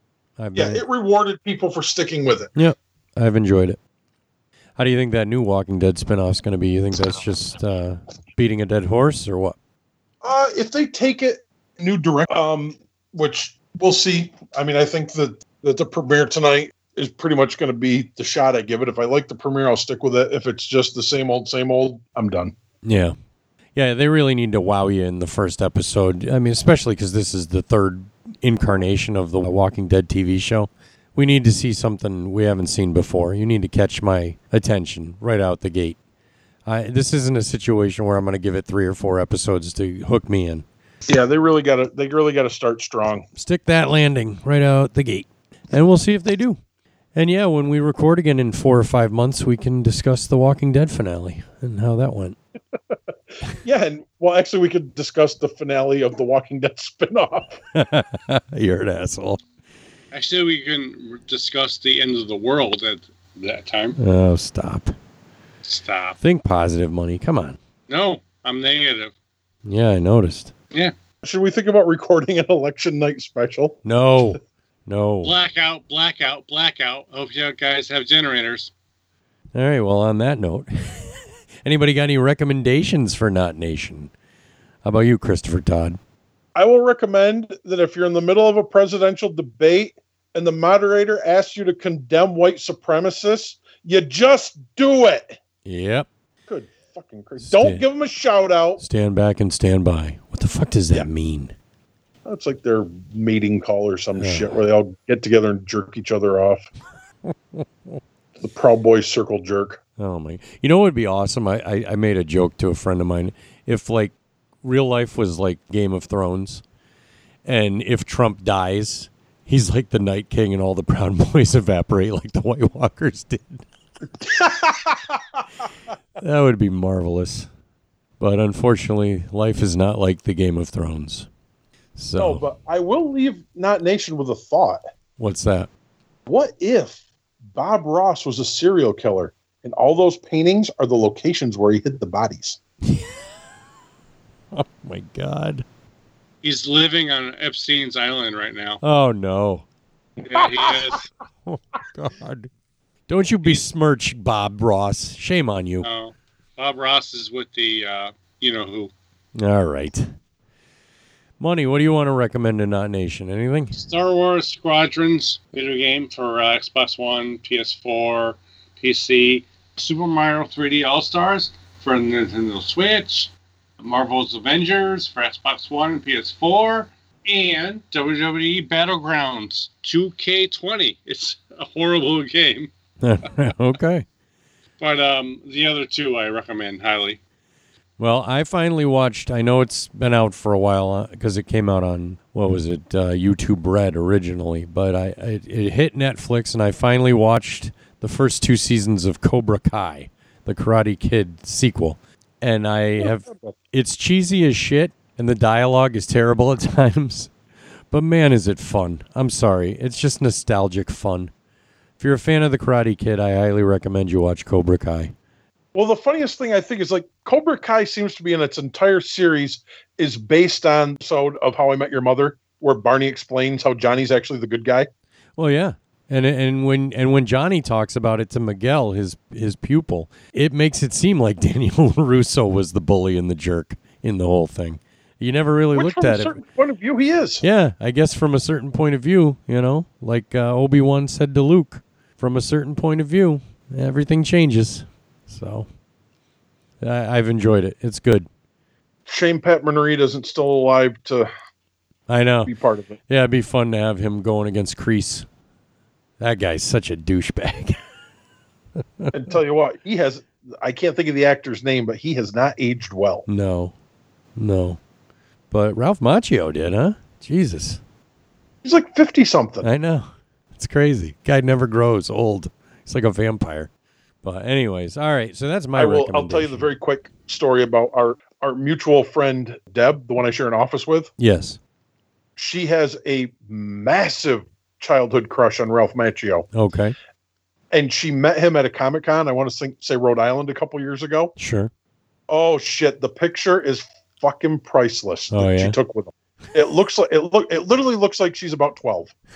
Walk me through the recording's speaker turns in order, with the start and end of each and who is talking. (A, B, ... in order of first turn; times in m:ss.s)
0:00.4-0:00.8 A
0:00.5-0:02.5 B
0:02.6-0:03.8 A
0:04.8-0:09.6 A
0:10.2-0:22.5 B
0:22.8-0:23.1 A
0:23.7-0:36.0 A
0:36.6-0:40.6 A
0:41.1-0:43.3 B
0:43.3-0:46.6 A
0:47.1-0:52.4 A
0:52.9-0:57.6 B
0:57.7-0:59.4 A
1:00.1-1:04.0 C
1:04.0-1:04.9 A
1:05.6-1:06.2 C
1:06.2-1:07.6 A
1:07.9-1:09.1 C
1:09.6-1:10.5 A
1:11.2-1:13.8 B
1:13.8-1:15.3 A
1:15.2-1:18.7 C
1:19.5-1:24.1 A
1:24.8-1:26.0 A
1:26.5-1:35.4 B
1:35.6-1:36.1 A
1:36.5-1:38.8 B
1:37.4-1:37.8 A
1:38.8-1:41.5 A
1:42.2-1:46.7 B
1:44.2-1:44.6 A
1:48.4-1:49.8 B
1:50.0-1:56.6 A
1:57.4-2:03.6 A
2:04.2-2:05.4 B
2:06.2-2:07.5 A
2:08.2-2:11.3 A
2:12.0-2:12.4 A
2:12.2-2:14.8 B
2:15.2-2:15.7 A
2:16.2-2:17.0 B
2:17.5-2:22.6 B
2:22.8-2:23.1 A
2:24.5-2:25.6 A
2:26.4-2:28.8 C
2:28.8-2:29.6 A
2:30.2-2:31.0 C
2:31.4-2:32.5 A
2:33.1-2:35.9 A
2:35.8-2:38.9 C
2:39.4-2:40.1 A
2:41.4-2:43.8 A
2:43.8-3:02.7 C
3:03.0-3:04.0 A
3:04.8-3:07.2 C
3:08.0-3:27.3 A
3:23.0-3:23.5 B
3:27.9-3:31.3 A
3:32.0-3:35.1 A
3:35.7-3:44.9 B
3:45.4-3:56.4 A
3:55.7-3:57.4 B
3:57.4-4:05.7 A
4:06.8-4:08.3 A
4:09.1-4:11.3 B
4:12.1-4:12.5 A
4:12.4-4:13.0 B
4:13.1-4:15.3 A
4:16.2-4:17.8 A
4:19.1-4:23.2 B
4:23.3-4:23.7 A
4:24.4-4:24.8 A
4:25.5-4:27.8 A
4:28.6-4:29.7 B
4:29.6-4:33.7 A
4:34.2-4:36.7 A
4:35.7-4:41.1 B
4:41.2-4:41.6 A
4:42.4-4:46.5 B
4:46.5-4:46.9 A
4:47.7-4:51.3 B
4:51.4-4:51.7 A
4:52.3-4:59.1 B
4:55.3-4:55.8 A